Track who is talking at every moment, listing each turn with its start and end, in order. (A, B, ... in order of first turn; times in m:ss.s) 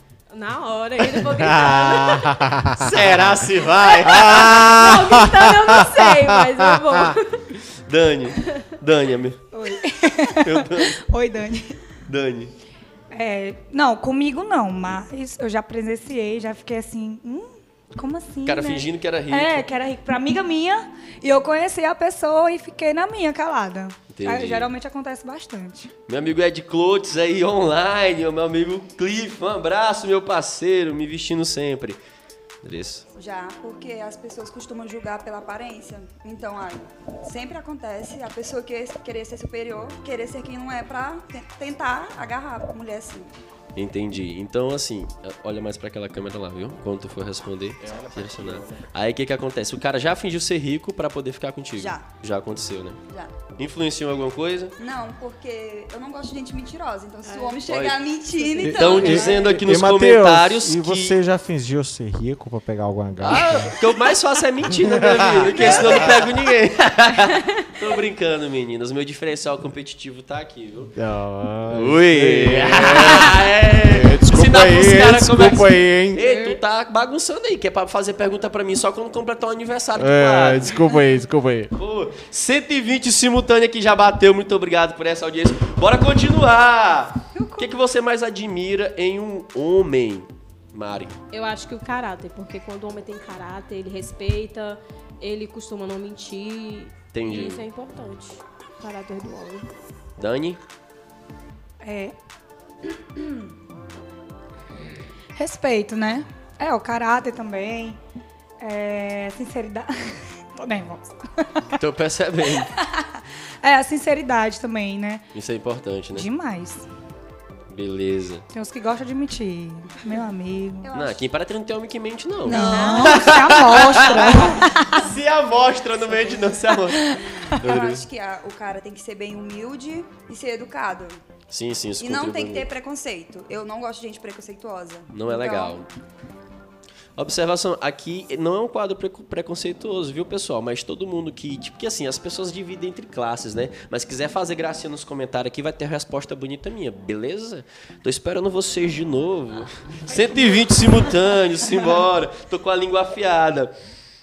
0:00.3-0:02.7 A
0:01.5-0:03.5 B
0:02.8-0:05.0 C
0:03.9-0:07.5 A
0:04.0-0:07.0 B
0:07.8-0:09.4 C
0:09.5-0:11.8 D
0:10.4-0:10.9 C
0:12.1-0:12.5 C
0:13.1-0:25.9 D
0:18.4-0:19.6 C
0:24.1-0:24.7 C
0:26.1-0:32.0 C
0:32.6-0:33.0 C
0:33.1-0:43.3 E
0:43.8-0:53.0 C
0:47.8-0:48.8 B
0:51.8-0:52.0 E
0:53.6-0:54.8 C
0:54.8-0:59.4 E
0:57.2-0:57.6 A
0:57.6-0:58.0 C
0:58.4-0:59.6 A
0:58.6-1:03.8 B
0:58.7-1:01.2 C
1:03.2-1:10.9 C
1:04.7-1:06.1 B
1:05.5-1:05.8 A
1:05.6-1:06.1 E
1:10.9-1:16.2 B
1:11.7-1:20.8 C
1:16.2-1:16.6 A
1:20.0-1:21.7 B
1:21.7-1:31.2 C
1:27.3-1:27.7 E
1:31.3-1:39.7 A
1:37.1-1:37.6 C
1:40.2-1:40.6 C
1:41.8-1:42.1 D
1:45.4-1:48.0 D
1:48.6-1:51.8 D
1:51.7-1:52.7 C
1:52.6-1:55.2 D
1:55.3-1:56.3 C
1:56.1-1:56.8 D
1:57.7-1:58.4 C
1:58.5-2:00.9 D
2:00.8-2:01.2 E
2:00.9-2:08.0 C
2:02.4-2:04.7 E
2:02.4-2:05.0 D
2:02.8-2:03.0 A
2:06.9-2:07.5 D
2:07.6-2:11.2 E
2:11.5-2:12.7 C
2:12.0-2:15.8 E
2:15.1-2:15.9 C
2:17.2-2:33.7 C